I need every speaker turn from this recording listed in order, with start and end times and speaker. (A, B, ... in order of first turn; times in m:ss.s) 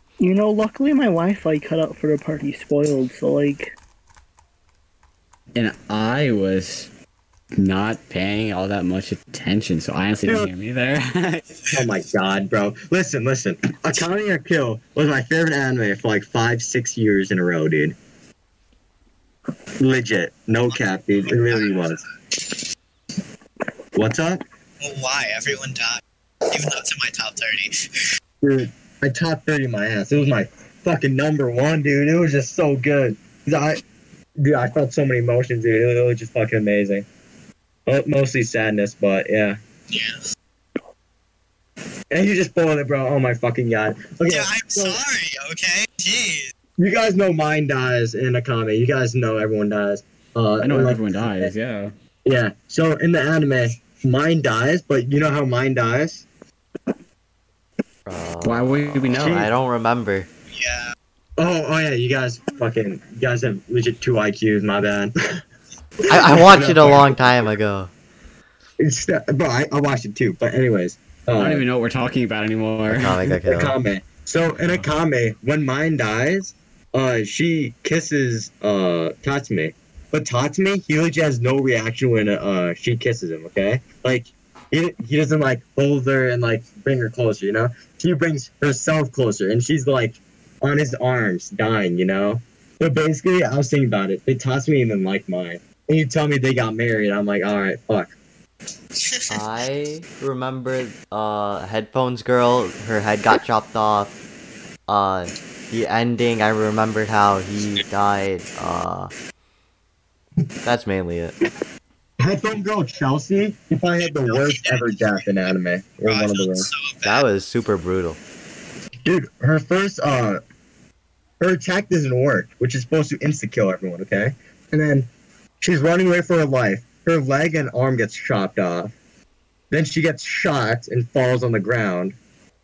0:00.2-0:03.8 A
0:05.6-0:06.9 B
0:07.6-0:11.5 B
0:10.2-0:10.5 C
0:11.7-0:18.0 C
0:19.8-0:22.0 C
0:20.7-0:22.1 D
0:24.0-0:24.4 C
0:24.8-0:28.1 D
0:28.4-0:33.8 C
0:34.4-0:37.1 C
0:37.9-0:39.6 C
0:39.9-0:40.3 D
0:42.1-0:45.0 C
0:44.3-0:46.5 D
0:46.8-0:51.5 C
0:50.6-0:51.9 B
0:52.2-0:56.2 C
0:58.1-1:00.3 E
0:58.4-0:59.5 B
0:59.1-0:59.5 C
1:00.5-1:01.0 D
1:01.4-1:05.4 C
1:06.1-1:07.2 C
1:06.1-1:07.9 E
1:08.8-1:11.6 C
1:11.4-1:13.4 B
1:12.9-1:13.8 E
1:13.5-1:38.1 C
1:14.6-1:14.9 B
1:39.0-1:39.4 D
1:39.3-1:44.2 E
1:44.9-1:49.1 E
1:50.6-1:51.4 E
1:52.2-1:56.7 C
1:54.0-1:55.5 D
1:56.0-1:57.3 D
1:57.0-1:58.2 E
1:59.0-2:00.4 C
2:01.4-2:05.1 C
2:05.6-2:08.9 C
2:09.7-2:12.2 C